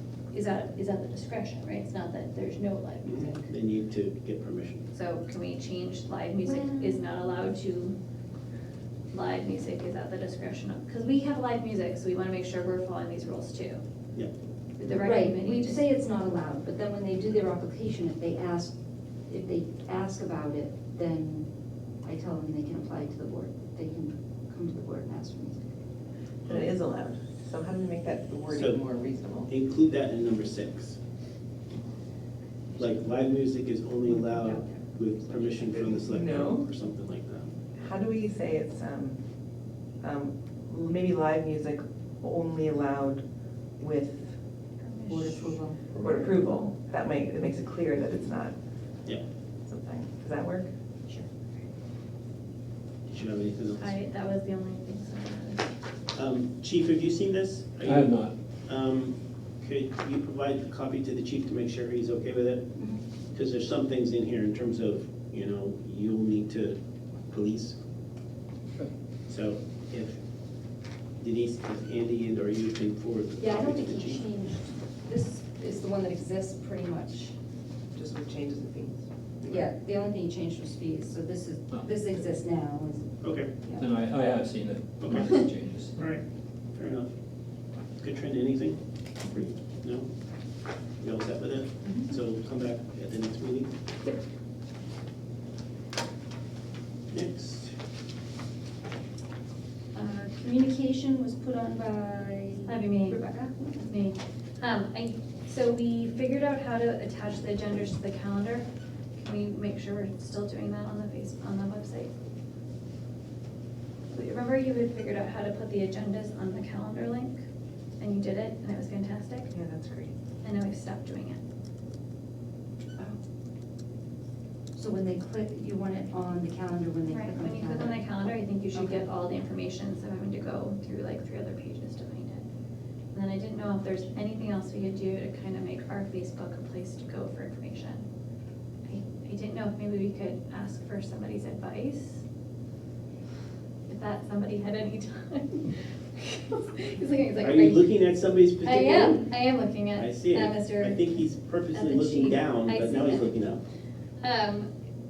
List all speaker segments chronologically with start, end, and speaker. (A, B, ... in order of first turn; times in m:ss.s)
0:00.3-0:03.5 A
0:03.0-0:04.8 B
0:04.9-0:08.0 A
0:06.4-0:07.0 C
0:09.1-0:13.8 A
0:14.8-0:15.8 A
0:14.8-0:18.7 C
0:19.3-0:21.5 C
0:22.0-0:25.7 C
0:26.5-0:29.5 D
0:28.5-0:28.8 B
0:29.5-0:31.0 B
0:32.8-0:37.5 B
0:34.1-0:34.8 D
0:36.0-0:36.7 D
0:37.8-0:39.2 D
0:40.0-0:43.2 D
0:43.8-0:44.4 D
0:44.8-0:45.6 A
0:45.1-0:46.3 C
0:46.0-0:48.6 D
0:49.6-0:50.7 D
0:53.1-0:53.9 B
0:53.8-0:55.7 A
0:56.1-0:58.1 B
0:57.8-0:58.3 E
0:58.7-1:02.6 B
1:03.3-1:07.8 B
1:09.3-1:10.2 B
1:11.2-1:14.2 B
1:13.4-1:17.4 C
1:18.0-1:19.0 D
1:19.4-1:23.9 C
1:23.2-1:23.5 B
1:23.8-1:26.0 E
1:25.0-1:25.4 B
1:26.8-1:27.1 B
1:28.0-1:30.1 B
1:31.0-1:33.7 B
1:37.1-1:37.7 B
1:40.0-1:43.9 C
1:42.7-1:43.2 A
1:43.8-1:48.7 A
1:49.2-1:52.1 A
1:54.1-1:57.4 A
1:58.0-1:59.5 A
1:59.5-2:00.1 D
2:00.4-2:01.4 A
2:04.8-2:08.1 C
2:07.1-2:12.4 A
2:08.7-2:09.1 C
2:13.1-2:18.0 A
2:18.9-2:22.2 A
2:23.9-2:27.9 A
2:27.4-2:29.2 B
2:28.6-2:33.4 A
2:29.9-2:33.6 B
2:34.2-2:34.7 A